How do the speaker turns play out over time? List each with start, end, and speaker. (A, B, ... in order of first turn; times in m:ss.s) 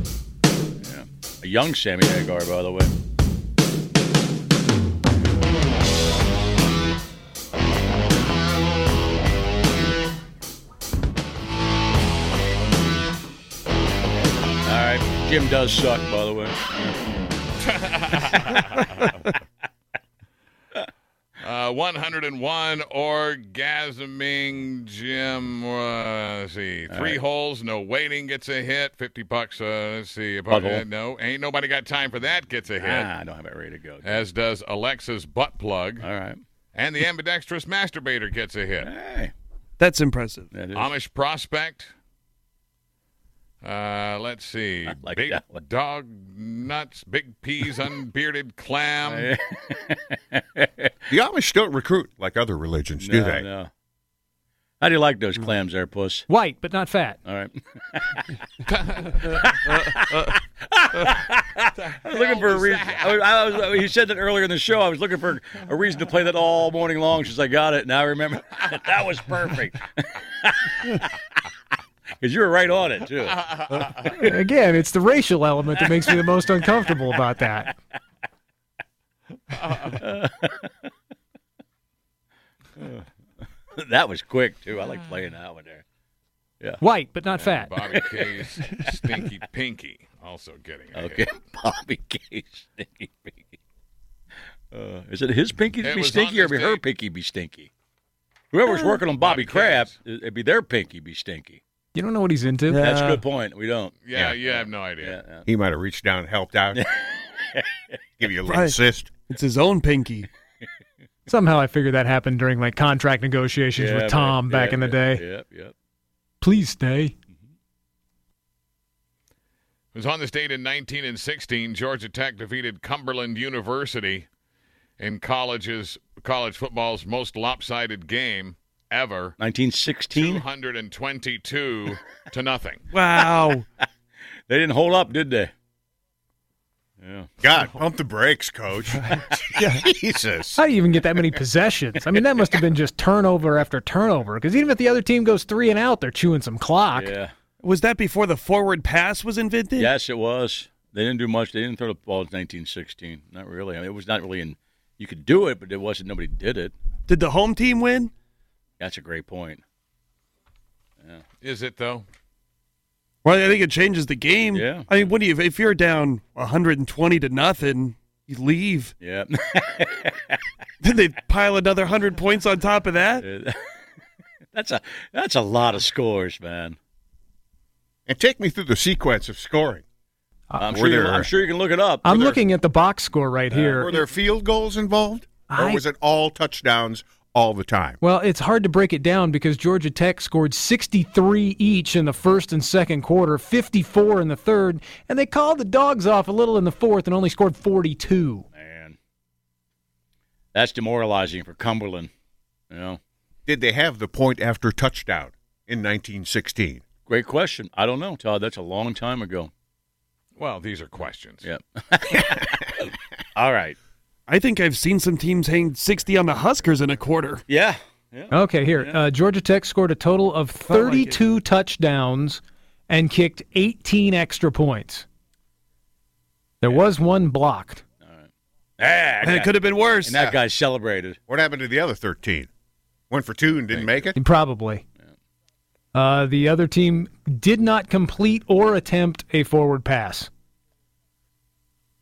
0:00.8-0:02.9 A
0:14.6-0:16.6 A
0:17.6-0:19.3 B
0:21.4-0:33.1 B
0:26.9-0:27.2 A
0:30.5-0:30.8 A
0:32.8-0:34.2 A
0:34.0-0:36.1 B
0:36.0-0:36.4 A
0:36.8-0:38.9 B
0:38.8-0:39.3 A
0:39.8-0:40.5 C
0:40.5-0:40.9 A
0:40.7-0:41.9 B
0:43.6-0:49.3 B
0:44.9-0:45.6 A
0:49.0-0:50.9 A
0:51.1-0:53.4 D
0:53.0-0:53.7 A
0:54.8-0:56.3 A
0:56.3-0:57.2 E
0:57.2-0:58.3 A
0:58.7-0:59.4 B
0:59.2-1:11.2 A
1:01.8-1:03.2 B
1:12.2-1:14.3 A
1:13.5-1:14.1 B
1:14.2-1:17.7 E
1:19.6-1:20.0 B
1:19.9-1:20.7 A
1:22.8-1:23.1 A
1:23.7-1:25.8 A
1:26.8-1:27.7 E
1:27.4-1:31.3 B
1:27.9-1:28.9 A
1:31.0-1:33.4 A
1:34.7-1:37.7 A
1:35.8-1:36.8 B
1:38.5-1:41.6 A
1:39.2-1:39.9 B
1:42.0-1:42.8 E
1:42.7-1:43.2 C
1:42.8-1:45.5 A
1:44.0-1:45.2 B
1:45.5-1:46.8 D
1:46.7-1:48.0 A
1:48.2-1:49.1 D
1:48.5-1:48.8 C
1:49.3-1:50.3 C
1:51.3-1:55.2 E
1:53.8-1:55.7 A
1:56.4-1:57.1 E
1:59.9-2:04.3 B
2:05.0-2:09.4 B
2:09.4-2:10.4 A
2:10.1-2:12.8 B
2:12.9-2:13.6 C
2:14.5-2:15.5 A
2:17.0-2:17.3 A
2:17.4-2:20.6 D
2:19.6-2:19.9 C
2:20.6-2:27.1 E
2:27.0-2:27.3 A
2:27.6-2:29.9 C
2:29.8-2:36.7 A
2:37.1-2:38.1 C
2:38.8-2:39.6 A
2:41.4-2:42.1 B
2:43.2-2:48.9 C
2:44.5-2:44.9 A
2:49.0-2:50.4 A
2:50.8-2:53.2 C
2:53.2-2:53.7 A
2:54.5-2:56.8 A
2:58.1-2:59.8 D
3:00.6-3:02.4 A
3:00.6-3:01.3 D
3:02.0-3:04.0 E
3:03.5-3:03.9 A
3:03.7-3:08.0 D
3:05.5-3:05.8 E
3:08.0-3:18.4 E
3:18.5-3:19.0 A
3:20.5-3:22.1 A
3:22.7-3:23.0 A
3:23.5-3:26.8 D
3:27.1-3:29.5 A
3:30.4-3:31.5 B
3:31.4-3:33.8 A
3:34.3-3:37.4 C
3:37.5-3:39.0 A
3:38.3-3:45.1 E
3:40.7-3:41.2 C
3:46.6-3:47.8 E
3:48.8-3:51.2 A
3:49.2-3:50.2 C
3:51.3-3:52.5 D
3:53.1-3:54.2 D
3:54.2-3:54.8 E
3:55.9-4:00.3 E